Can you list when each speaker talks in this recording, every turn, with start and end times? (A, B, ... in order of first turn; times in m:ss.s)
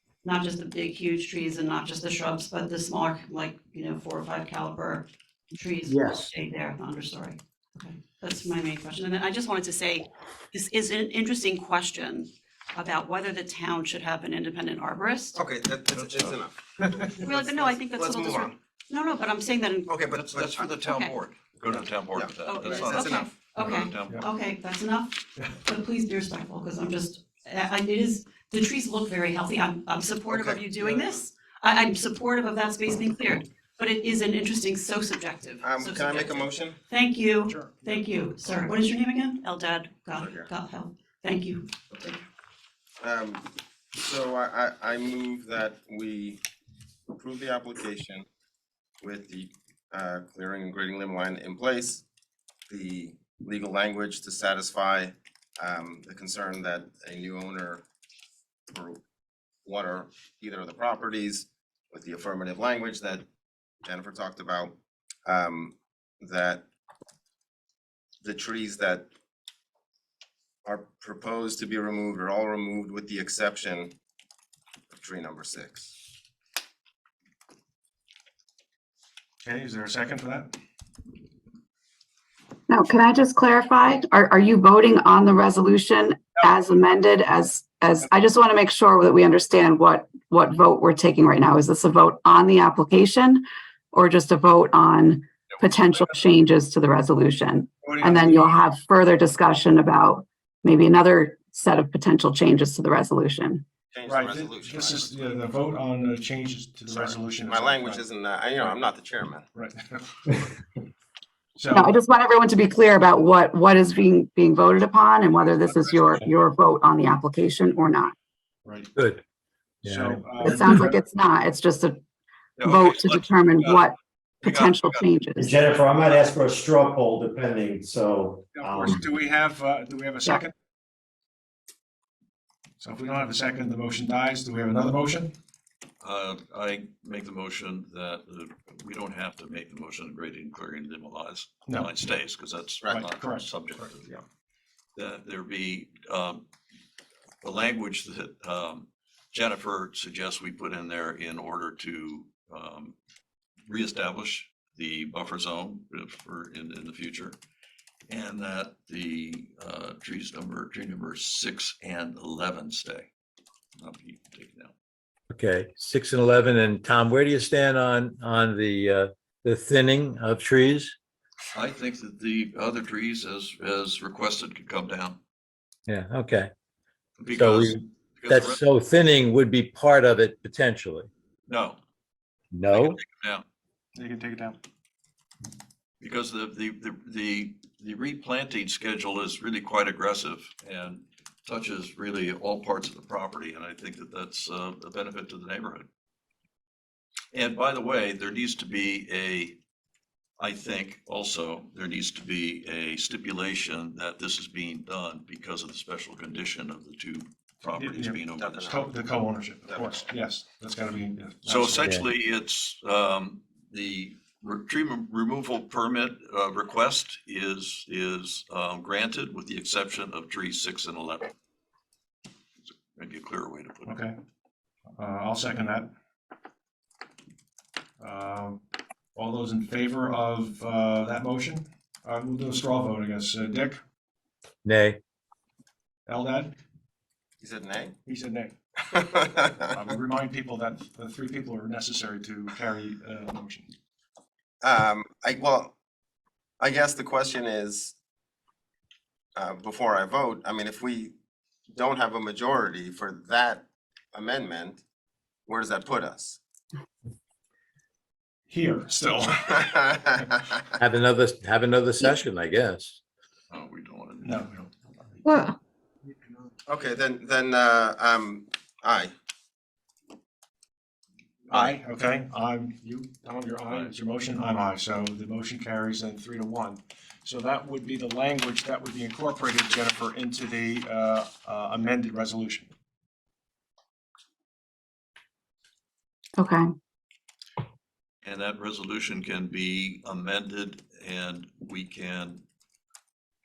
0:00.2-0:15.4 A
0:15.3-0:18.5 B
0:15.9-0:16.4 C
0:17.1-0:20.0 A
0:19.9-0:20.6 B
0:20.1-0:24.2 C
0:20.6-0:21.1 A
0:22.1-0:23.3 B
0:22.4-0:42.2 A
0:30.3-0:31.0 B
0:35.6-0:36.8 B
0:37.5-0:37.9 D
0:40.2-0:40.5 B
0:43.0-0:46.4 B
0:47.1-0:48.2 B
0:49.0-0:52.0 B
0:52.7-0:57.8 B
0:58.7-0:59.0 B
0:59.6-1:03.2 B
1:03.8-1:06.6 B
1:08.2-1:09.0 B
1:10.6-1:13.9 B
1:14.9-1:15.9 B
1:19.4-1:20.6 D
1:22.7-1:33.4 E
1:33.9-1:43.6 E
1:35.9-1:36.2 D
1:37.8-1:38.6 D
1:43.9-1:45.1 B
1:44.0-1:48.0 D
1:46.9-1:49.5 B
1:49.5-1:50.6 D
1:51.6-1:52.0 D
1:51.7-1:58.1 E
1:55.9-1:56.3 D
1:58.6-1:58.9 D
1:59.0-1:59.2 F
1:59.8-2:00.6 F
1:59.8-2:01.0 D
2:00.5-2:02.0 E
2:02.6-2:03.9 C
2:02.7-2:04.0 E
2:04.4-2:05.0 C
2:04.5-2:05.5 E
2:05.4-2:09.0 G
2:08.5-2:10.5 D
2:12.8-2:15.3 D
2:16.0-2:24.1 C
2:22.9-2:23.9 D
2:25.0-2:26.4 C
2:27.4-2:32.9 C
2:33.7-2:37.4 C
2:38.1-2:43.1 C
2:43.8-2:44.7 C
2:45.3-2:50.9 F
2:51.5-2:55.2 C
2:55.9-2:56.5 F
2:57.2-2:58.6 C
2:57.3-3:01.1 F
3:01.5-3:01.8 C
3:02.5-3:03.0 F
3:02.7-3:03.4 C
3:03.9-3:04.6 D
3:06.0-3:15.9 C
3:17.3-3:19.6 C
3:20.4-3:28.7 C
3:27.7-3:31.9 D
3:28.4-3:28.9 B
3:29.6-3:30.1 B
3:31.4-3:41.3 C
3:42.6-3:44.0 C
3:43.8-3:44.2 D
3:45.0-3:45.9 D
3:48.0-3:48.6 D
3:49.1-3:53.8 D
3:54.6-3:55.0 F
3:56.1-3:56.5 D
3:57.4-3:58.0 B
3:58.0-3:58.5 D
3:58.9-3:59.8 B
3:59.7-4:03.7 D
4:04.6-4:05.7 B
4:06.6-4:07.9 B
4:09.3-4:11.1 B
4:11.7-4:14.8 B
4:15.5-4:16.4 B
4:18.5-4:19.7 D
4:19.6-4:20.6 B
4:20.8-4:23.0 F
4:23.5-4:24.7 C
4:24.2-4:24.6 D
4:25.2-4:25.5 E
4:26.6-4:29.1 B
4:31.5-4:42.7 D
4:46.4-4:46.6 E
4:48.2-4:52.4 C